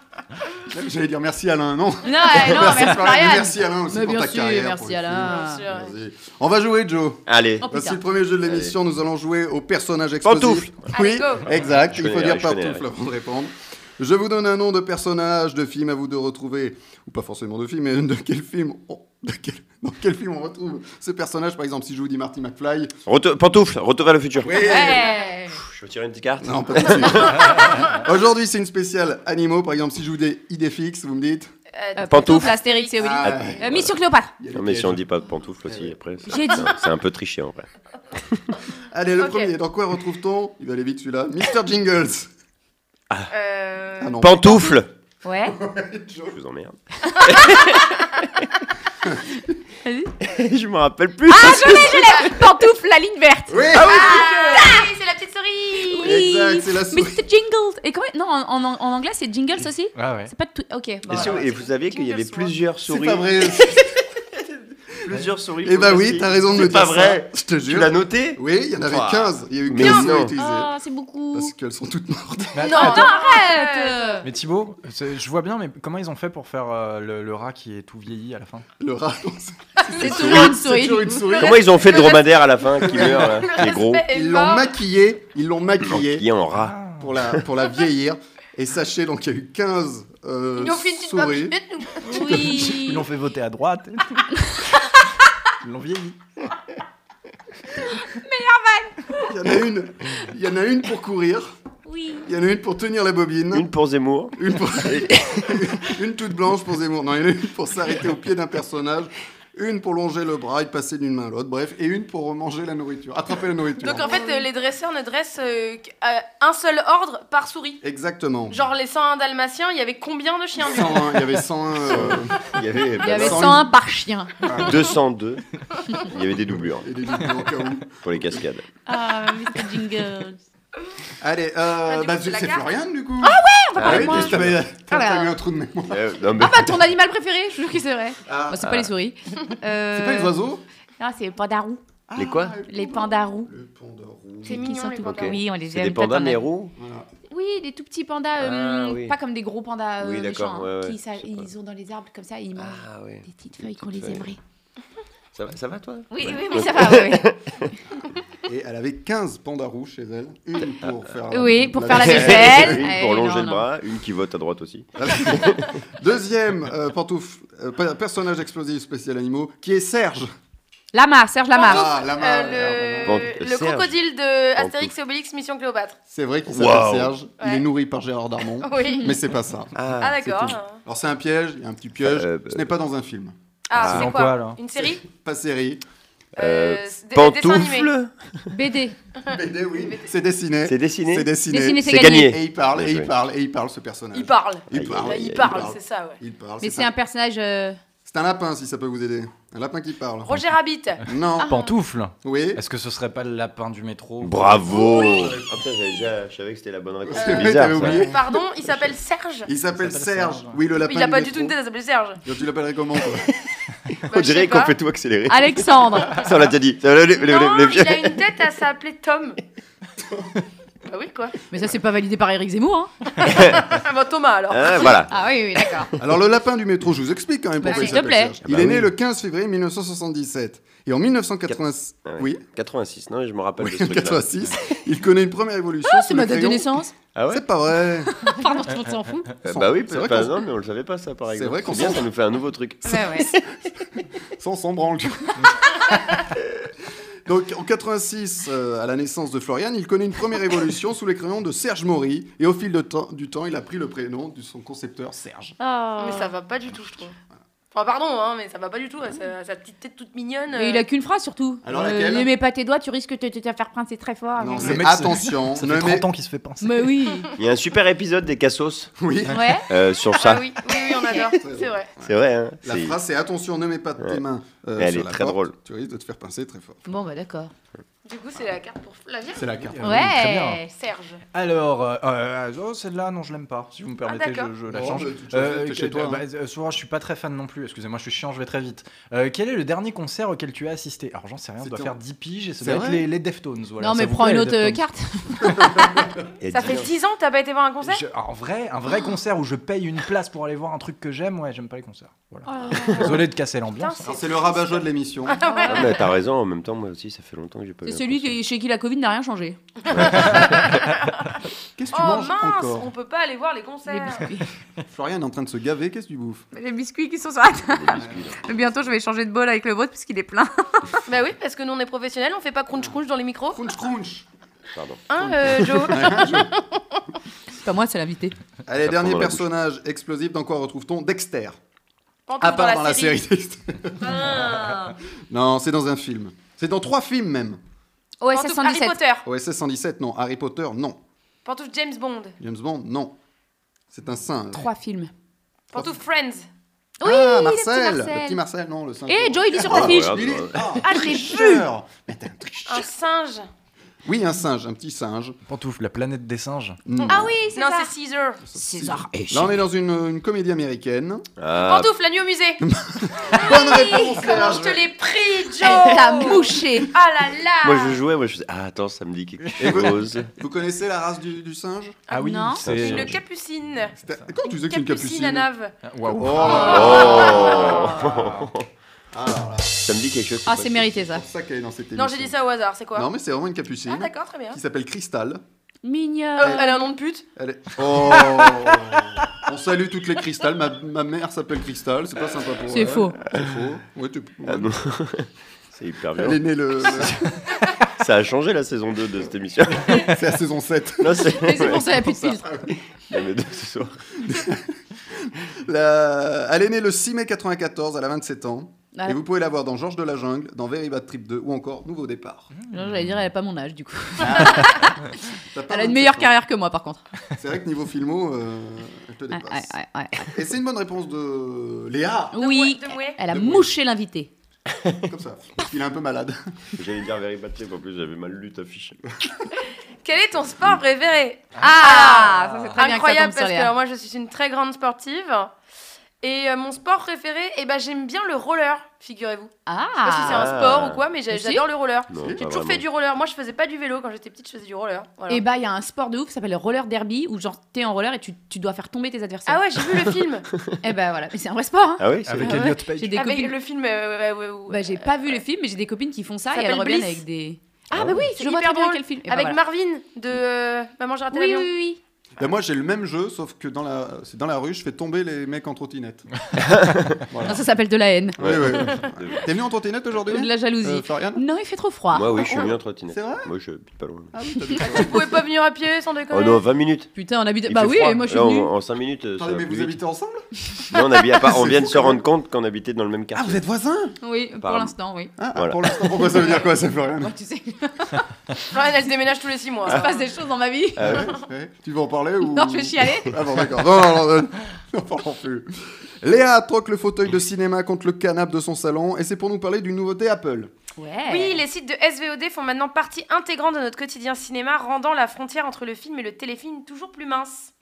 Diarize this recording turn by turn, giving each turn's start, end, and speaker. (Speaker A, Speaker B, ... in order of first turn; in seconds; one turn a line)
Speaker A: 0.7-22.9
Speaker B: 2.0-5.6
Speaker C: 5.2-5.9
Speaker D: 7.3-7.7
Speaker B: 7.6-8.0
Speaker D: 8.4-8.8
Speaker D: 10.2-10.9
Speaker C: 10.9-11.5
Speaker D: 11.9-12.8
Speaker D: 23.1-25.0
Speaker A: 24.4-25.1
Speaker B: 24.6-25.6
Speaker C: 24.6-25.1
Speaker D: 25.5-27.9
Speaker A: 26.4-31.5
Speaker C: 31.7-33.3
Speaker B: 31.9-34.3
Speaker D: 32.1-32.5
Speaker A: 33.0-33.8
Speaker D: 33.2-33.9
Speaker A: 34.4-35.0
Speaker D: 34.5-37.7
Speaker A: 35.7-36.0
Speaker A: 38.9-42.3
Speaker C: 39.2-39.5
Speaker C: 43.3-44.2
Speaker A: 44.0-44.7
Speaker D: 44.2-44.9
Speaker B: 45.2-45.6
Speaker A: 45.4-46.4
Speaker D: 46.3-48.5
Speaker B: 49.9-50.1
Speaker D: 50.2-52.4
Speaker B: 51.3-54.9
Speaker A: 53.5-54.3
Speaker C: 53.9-56.1
Speaker B: 55.9-61.3
Speaker A: 56.0-57.2
Speaker E: 60.0-60.3
Speaker D: 61.1-63.9
Speaker C: 61.1-62.5
Speaker A: 62.9-63.9
Speaker D: 65.0-70.3
Speaker A: 65.6-70.7
Speaker C: 69.8-70.1
Speaker B: 70.4-71.5
Speaker A: 71.3-72.8
Speaker E: 72.5-73.1
Speaker C: 72.7-74.2
Speaker B: 72.7-74.2
Speaker E: 74.2-78.7
Speaker A: 78.8-82.1
Speaker B: 80.0-81.4
Speaker D: 80.1-80.5
Speaker D: 81.4-84.0
Speaker C: 81.5-84.7
Speaker A: 82.8-83.5
Speaker A: 84.1-86.3
Speaker D: 85.9-86.8
Speaker E: 86.6-87.1
Speaker A: 87.0-92.7
Speaker C: 90.6-92.0
Speaker B: 92.0-93.0
Speaker E: 92.2-94.7
Speaker E: 95.6-96.2
Speaker B: 98.0-99.3
Speaker A: 99.2-101.5
Speaker B: 101.9-102.3
Speaker A: 102.2-103.7
Speaker D: 103.5-105.6
Speaker A: 104.3-114.3
Speaker C: 113.8-117.8
Speaker A: 117.8-118.7
Speaker C: 118.5-121.3
Speaker A: 120.7-122.5
Speaker D: 121.9-123.7
Speaker B: 123.0-124.3
Speaker A: 123.0-123.7
Speaker A: 124.4-124.8
Speaker D: 124.6-125.4
Speaker D: 126.0-126.9
Speaker A: 126.8-128.4
Speaker D: 128.0-128.6
Speaker B: 128.9-130.4
Speaker A: 131.2-136.1
Speaker C: 131.8-132.7
Speaker B: 133.2-135.3
Speaker D: 133.8-134.6
Speaker D: 135.9-136.8
Speaker B: 136.4-140.3
Speaker A: 138.3-138.8
Speaker D: 138.6-138.9
Speaker A: 139.9-140.6
Speaker B: 141.0-141.8
Speaker A: 142.1-144.7
Speaker D: 142.2-142.6
Speaker B: 142.7-143.5
Speaker B: 144.4-146.5
Speaker C: 144.4-145.4
Speaker D: 145.0-146.7
Speaker A: 146.8-147.1
Speaker B: 147.3-154.4
Speaker D: 148.4-149.2
Speaker D: 150.0-151.5
Speaker D: 152.6-154.3
Speaker D: 155.3-157.7
Speaker B: 156.1-157.3
Speaker A: 158.4-162.9
Speaker B: 161.3-163.6
Speaker D: 161.9-165.7
Speaker A: 165.0-170.3
Speaker B: 170.9-171.9
Speaker C: 171.6-176.0
Speaker A: 171.6-173.3
Speaker D: 173.1-174.0
Speaker D: 174.6-174.9
Speaker A: 176.1-183.3
Speaker D: 176.5-177.1
Speaker C: 178.6-179.1
Speaker D: 179.8-180.4
Speaker C: 180.0-180.8
Speaker D: 182.1-182.6
Speaker C: 183.7-185.1
Speaker D: 183.8-184.1
Speaker E: 183.8-184.6
Speaker A: 184.8-185.8
Speaker C: 186.4-187.9
Speaker D: 186.4-188.5
Speaker B: 188.5-188.9
Speaker C: 189.2-190.1
Speaker A: 189.3-196.9
Speaker D: 190.6-193.1
Speaker B: 191.5-192.4
Speaker C: 194.1-196.2
Speaker D: 194.7-195.7
Speaker B: 196.6-197.8
Speaker A: 198.1-200.4
Speaker C: 200.2-201.0
Speaker A: 201.1-201.6
Speaker E: 201.5-204.8
Speaker A: 202.2-202.6
Speaker D: 204.2-208.2
Speaker A: 204.7-205.5
Speaker C: 204.8-205.1
Speaker A: 207.1-208.2
Speaker C: 207.2-209.5
Speaker A: 209.5-211.6
Speaker E: 209.7-210.6
Speaker C: 210.8-212.2
Speaker A: 212.2-213.3
Speaker D: 213.9-218.2
Speaker C: 214.1-214.8
Speaker B: 215.3-216.2
Speaker C: 217.1-219.4
Speaker A: 220.0-220.3
Speaker C: 220.9-221.3
Speaker B: 221.5-222.9
Speaker D: 223.2-223.7
Speaker C: 223.2-225.0
Speaker D: 224.5-225.2
Speaker B: 225.1-225.9
Speaker A: 226.0-232.4
Speaker B: 227.6-228.4
Speaker C: 227.7-228.0
Speaker D: 228.4-228.9
Speaker D: 231.5-234.8
Speaker A: 233.6-238.1
Speaker B: 235.9-236.9
Speaker D: 237.2-237.4
Speaker B: 238.2-239.3
Speaker A: 239.4-240.5
Speaker D: 239.4-243.4
Speaker A: 241.3-242.1
Speaker B: 242.8-243.3
Speaker A: 244.4-245.7
Speaker A: 247.2-255.6
Speaker B: 255.6-256.3
Speaker C: 256.0-257.1
Speaker C: 257.7-260.8
Speaker B: 260.5-264.8
Speaker A: 261.6-262.3
Speaker A: 264.4-266.1
Speaker E: 264.6-266.9
Speaker B: 266.6-267.3
Speaker D: 267.4-268.9
Speaker A: 269.0-269.5
Speaker B: 269.3-269.7
Speaker D: 269.7-270.4
Speaker C: 270.2-271.9
Speaker B: 271.0-271.2
Speaker A: 271.2-276.9
Speaker D: 272.0-272.9
Speaker D: 274.8-275.6
Speaker B: 276.9-277.5
Speaker C: 278.1-279.5
Speaker A: 279.4-280.0
Speaker E: 279.6-280.6
Speaker B: 279.8-280.7
Speaker C: 280.7-281.2
Speaker E: 281.3-294.8
Speaker C: 284.1-284.5
Speaker A: 284.7-286.2
Speaker A: 291.6-291.9
Speaker A: 292.6-293.0
Speaker B: 293.8-296.0
Speaker A: 295.6-296.0
Speaker D: 296.4-296.9
Speaker C: 296.5-298.0
Speaker E: 297.8-304.1
Speaker B: 302.5-303.1
Speaker D: 302.7-303.2
Speaker C: 303.8-306.0
Speaker A: 304.0-305.4
Speaker B: 305.5-305.9
Speaker D: 305.7-308.4
Speaker B: 307.9-309.6
Speaker D: 309.9-310.9
Speaker C: 310.0-310.8
Speaker A: 311.8-312.9
Speaker C: 311.9-314.2
Speaker B: 313.9-314.5
Speaker A: 314.9-316.5
Speaker B: 316.5-320.9
Speaker D: 317.7-318.4
Speaker A: 317.9-318.3
Speaker C: 321.1-323.6
Speaker A: 323.5-324.3
Speaker D: 324.8-325.8
Speaker C: 325.1-326.8
Speaker A: 325.1-326.6
Speaker B: 327.6-328.4
Speaker A: 328.7-331.6
Speaker D: 328.8-329.5
Speaker C: 332.3-333.2
Speaker A: 332.4-334.5
Speaker C: 334.0-335.0
Speaker A: 335.3-337.6
Speaker B: 338.2-339.0
Speaker C: 338.3-339.2
Speaker A: 339.2-341.0
Speaker C: 341.4-342.4
Speaker A: 342.4-343.1
Speaker A: 343.9-344.7
Speaker B: 344.5-345.1
Speaker C: 345.7-346.5
Speaker B: 347.0-348.4
Speaker A: 347.0-352.9
Speaker B: 349.1-351.6
Speaker D: 349.7-350.8
Speaker C: 352.7-353.5
Speaker A: 354.1-355.4
Speaker E: 355.5-356.8
Speaker A: 356.9-357.3
Speaker B: 357.1-357.9
Speaker C: 357.5-358.4
Speaker A: 358.4-361.2
Speaker B: 358.6-359.5
Speaker D: 361.4-361.9
Speaker C: 361.6-362.6
Speaker A: 362.6-364.9
Speaker C: 363.3-368.0
Speaker B: 365.6-366.9
Speaker D: 367.6-370.3
Speaker A: 369.6-372.0
Speaker E: 372.1-373.2
Speaker B: 372.1-372.6
Speaker D: 372.6-373.2
Speaker C: 372.6-373.9
Speaker A: 374.0-375.5
Speaker C: 374.5-375.7
Speaker E: 375.9-376.6
Speaker A: 376.1-377.6
Speaker B: 376.4-378.1
Speaker D: 376.4-378.7
Speaker C: 376.5-377.9
Speaker E: 378.1-378.5
Speaker A: 379.1-379.8
Speaker D: 379.8-380.9
Speaker B: 380.5-381.2
Speaker A: 381.1-382.4
Speaker C: 382.0-383.1
Speaker A: 382.9-385.4
Speaker C: 383.9-384.6
Speaker B: 385.8-386.8
Speaker C: 386.4-387.2
Speaker A: 387.4-394.7
Speaker B: 392.7-393.1
Speaker D: 394.5-400.1
Speaker A: 396.2-397.3
Speaker A: 399.9-402.8
Speaker D: 401.0-401.9
Speaker B: 401.3-402.5
Speaker D: 403.1-404.0
Speaker A: 404.2-412.5
Speaker B: 408.9-409.2
Speaker B: 412.7-414.9
Speaker E: 412.7-413.1
Speaker A: 414.2-414.8
Speaker A: 415.5-416.4
Speaker B: 415.7-417.0
Speaker A: 417.4-419.7
Speaker B: 419.3-420.3
Speaker A: 420.3-422.4
Speaker B: 422.3-424.3
Speaker C: 422.4-423.2
Speaker A: 423.3-423.7
Speaker A: 425.1-426.4
Speaker D: 426.8-429.0
Speaker C: 430.0-435.5
Speaker B: 431.6-433.7
Speaker C: 436.2-439.5
Speaker B: 439.7-440.5
Speaker C: 440.0-445.4
Speaker D: 440.2-441.0
Speaker B: 441.3-441.6
Speaker D: 442.1-442.8
Speaker B: 445.3-449.6
Speaker C: 449.5-450.5
Speaker B: 450.8-453.5
Speaker D: 452.0-452.7
Speaker E: 452.3-453.2
Speaker C: 453.1-455.4
Speaker B: 454.7-459.6
Speaker C: 456.5-457.2
Speaker C: 458.1-461.7
Speaker B: 461.3-462.0
Speaker A: 462.4-466.3
Speaker D: 466.6-467.2
Speaker A: 467.3-467.6
Speaker B: 467.4-468.4
Speaker D: 468.4-469.5
Speaker A: 468.4-471.4
Speaker B: 470.3-472.6
Speaker D: 472.1-474.3
Speaker A: 473.1-473.5
Speaker A: 474.3-475.3
Speaker C: 474.8-476.6
Speaker D: 476.3-477.1
Speaker B: 477.1-478.7
Speaker D: 477.6-480.0
Speaker A: 479.4-480.4
Speaker D: 480.9-483.6
Speaker A: 481.4-482.2
Speaker A: 483.3-484.2
Speaker B: 484.2-485.3
Speaker D: 484.6-484.9
Speaker A: 485.4-487.3
Speaker D: 485.6-485.8
Speaker B: 487.2-488.3
Speaker C: 488.7-490.1
Speaker B: 489.9-491.2
Speaker D: 491.0-491.3
Speaker A: 491.0-495.7
Speaker B: 492.5-493.4
Speaker A: 496.2-500.7
Speaker B: 501.0-501.6
Speaker C: 501.3-507.7